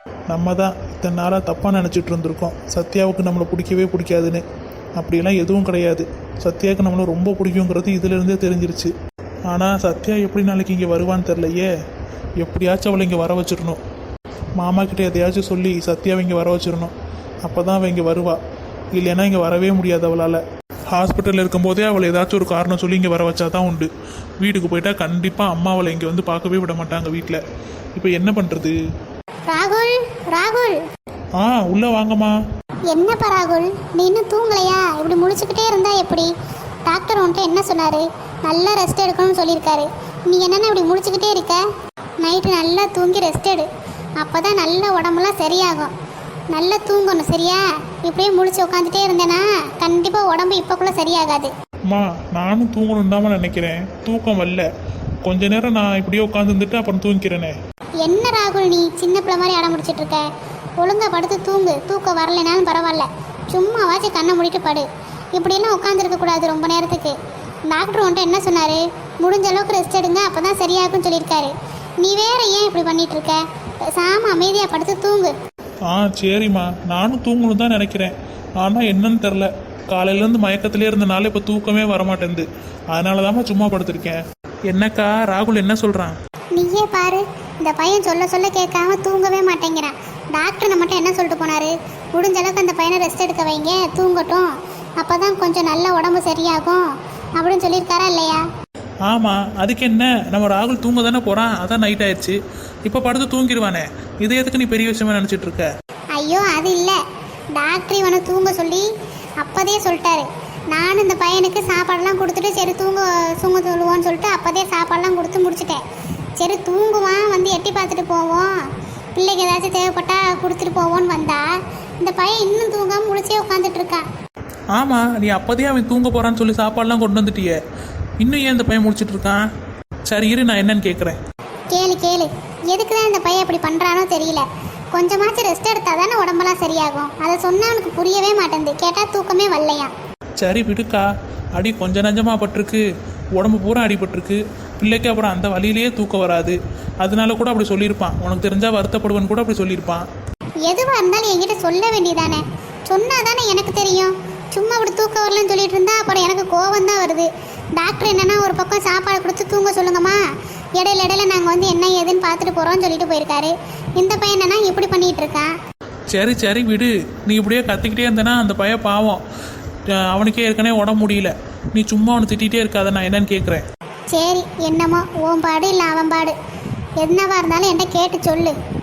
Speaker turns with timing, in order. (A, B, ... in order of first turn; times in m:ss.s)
0:00.3-0:04.4 A
0:05.0-0:08.9 A
0:09.5-0:11.7 A
0:12.4-0:13.8 A
0:14.6-0:18.4 A
0:19.0-0:23.9 A
0:24.4-0:27.4 A
0:28.0-0:28.8 A
0:29.5-0:30.8 B
0:31.4-0:32.4 A
0:32.9-0:36.3 B
0:36.9-0:41.7 B
0:42.2-0:43.7 B
0:44.2-0:45.9 B
0:46.5-0:51.5 B
0:51.9-0:54.7 A
0:55.2-0:57.6 A
0:58.0-1:00.3 B
1:00.8-1:07.2 B
1:07.7-1:13.4 B
1:14.0-1:15.4 B
1:15.9-1:26.2 A
1:26.5-1:36.8 B
1:37.4-1:38.4 B
1:39.1-1:45.7 A
1:46.2-1:47.0 B
1:47.6-1:48.9 B
1:49.4-1:55.8 B
1:56.4-1:58.5 B
1:59.2-2:04.0 B
2:04.7-2:07.6 A
2:08.2-2:09.4 A
2:10.1-2:11.2 A
2:11.7-2:19.9 B
2:20.4-2:22.8 A
2:23.4-2:30.1 A
2:30.7-2:40.2 B
2:40.8-2:45.5 B
2:46.1-2:49.2 A
2:50.0-2:53.6 A
2:54.1-2:56.4 B
2:57.0-2:58.6 B